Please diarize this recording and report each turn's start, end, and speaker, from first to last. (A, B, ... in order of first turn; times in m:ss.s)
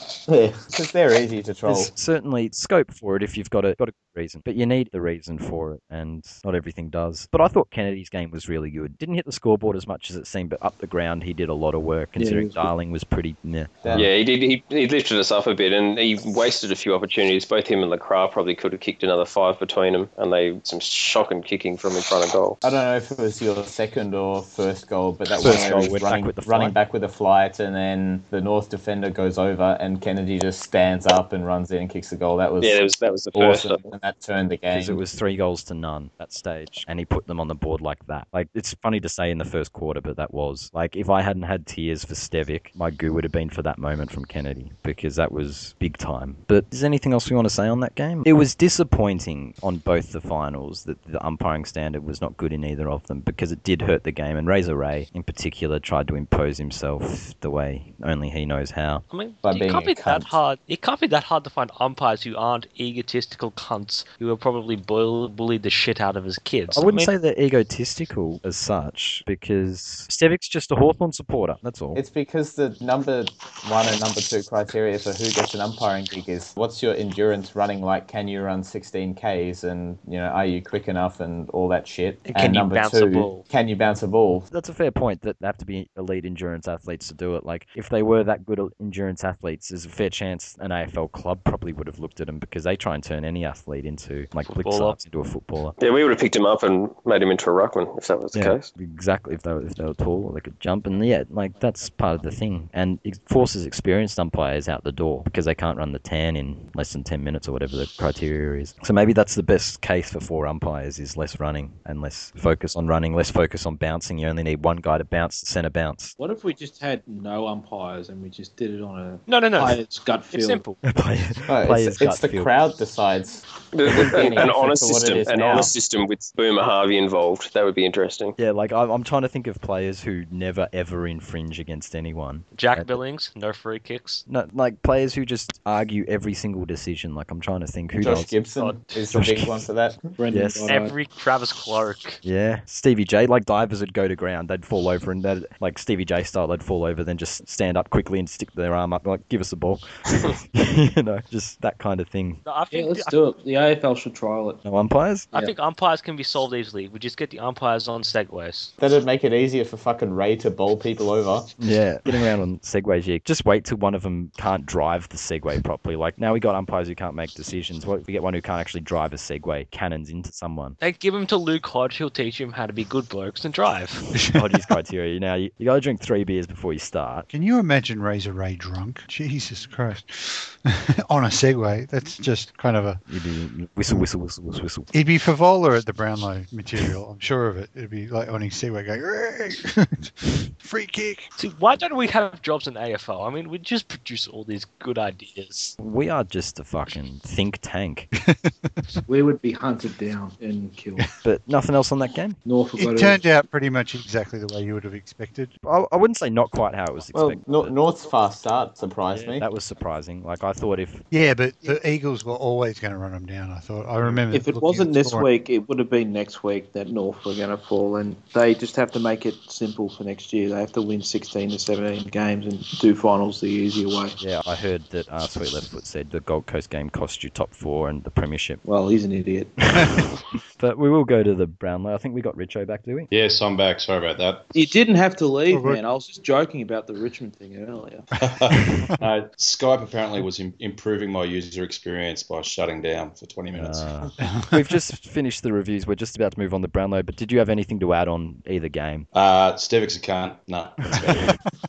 0:00.3-0:01.9 A
0:01.6-0:14.1 B
0:12.2-0:12.7 C
0:13.8-0:14.1 A
0:13.9-0:22.6 D
0:22.6-0:35.0 A
0:25.4-0:26.8 B
0:32.6-0:33.8 D
0:34.7-0:59.0 B
0:59.1-1:07.1 E
0:59.4-1:00.4 A
1:06.7-1:12.0 B
1:11.9-1:24.5 A
1:22.3-1:23.5 E
1:24.5-1:35.8 B
1:34.5-1:35.0 E
1:35.8-1:38.7 D
1:38.3-1:56.2 B
1:41.6-1:41.8 C
1:56.2-2:00.6 C
1:59.2-2:00.8 E
2:00.8-2:02.5 B
2:01.5-2:05.8 A
2:03.7-2:08.4 D
2:08.4-2:13.0 B
2:12.5-2:14.2 E
2:14.3-2:18.3 B
2:18.0-2:20.0 A
2:18.6-2:18.8 E
2:19.1-2:19.6 B
2:20.2-2:21.0 C
2:20.3-2:20.7 B
2:20.6-2:22.2 E
2:22.2-2:32.4 B
2:32.4-2:33.2 E
2:32.7-2:34.6 C
2:34.6-2:35.3 B
2:35.3-2:38.7 E
2:38.8-2:41.5 A
2:41.6-2:50.8 B
2:50.8-2:54.1 E
2:54.3-2:57.3 B
2:57.3-3:03.0 F
3:03.1-3:04.9 B
3:04.9-3:11.3 F
3:11.4-3:15.8 E
3:15.8-3:18.1 B
3:18.2-3:19.0 F
3:19.1-3:21.1 C
3:21.2-3:22.4 B
3:22.4-3:23.2 C
3:22.8-3:25.5 F
3:25.6-3:27.7 B
3:27.1-3:29.4 A
3:29.1-3:31.0 B
3:31.1-3:35.3 F
3:34.3-3:44.2 C
3:44.2-3:48.6 B
3:48.6-3:49.6 C
3:49.7-3:50.0 B
3:50.6-3:53.1 B
3:53.1-3:54.5 G
3:54.5-3:58.1 C
3:55.5-3:55.8 F
3:58.2-4:03.9 G
4:03.5-4:09.1 B
4:04.2-4:04.7 F
4:09.1-4:11.4 G
4:11.0-4:11.2 F